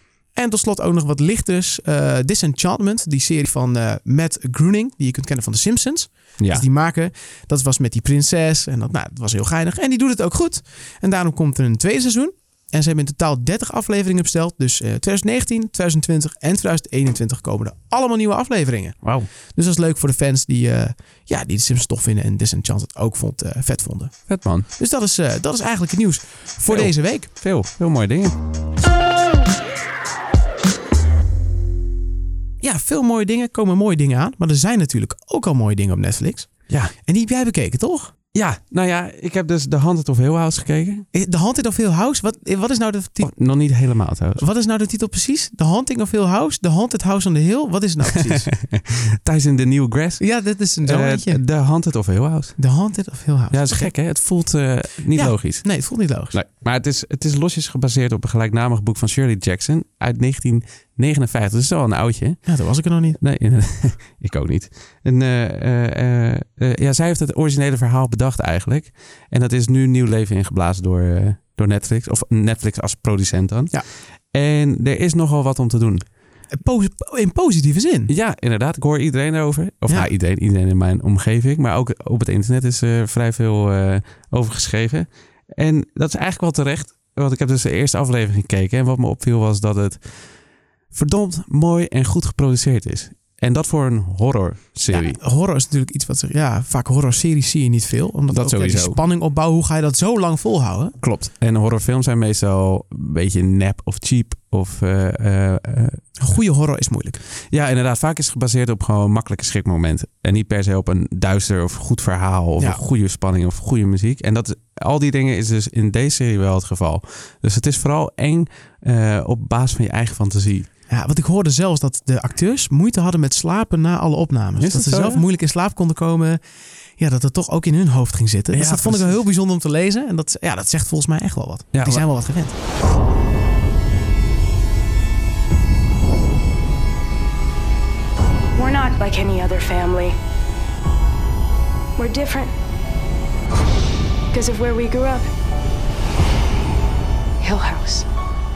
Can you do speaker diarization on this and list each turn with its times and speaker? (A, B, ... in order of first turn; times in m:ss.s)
0:00.3-0:19.0 A
0:19.0-0:19.3 B
0:19.5-0:24.1 A
0:24.3-0:24.7 B
0:24.8-0:27.3 A
0:26.7-0:28.4 B
0:32.6-0:36.5 A
0:36.7-0:36.9 B
0:37.0-0:38.1 A
0:38.3-0:41.1 B
0:41.1-0:43.3 A
0:43.2-0:44.4 B
0:44.4-0:48.5 A
0:48.1-0:50.2 B
0:50.2-0:51.4 A
0:50.8-0:52.6 B
0:52.6-0:53.9 A
0:53.5-0:55.6 B
0:55.1-0:56.4 A
0:56.3-1:02.4 B
1:02.4-1:03.2 A
1:03.2-1:13.7 B
1:14.3-1:16.0 B
1:16.5-1:18.1 A
1:18.1-1:30.0 B
1:30.9-1:35.2 B
1:34.9-1:41.0 A
1:38.3-1:39.0 B
1:41.0-1:46.2 B
1:46.2-1:47.2 A
1:47.5-2:00.7 B
2:00.9-2:06.4 A
2:04.6-2:05.2 B
2:07.0-2:12.5 A
2:08.5-2:09.2 B
2:11.7-2:12.1 B
2:18.5-2:20.2 C
2:22.0-2:22.5 C
2:24.3-2:25.3 C
2:27.4-2:28.1 C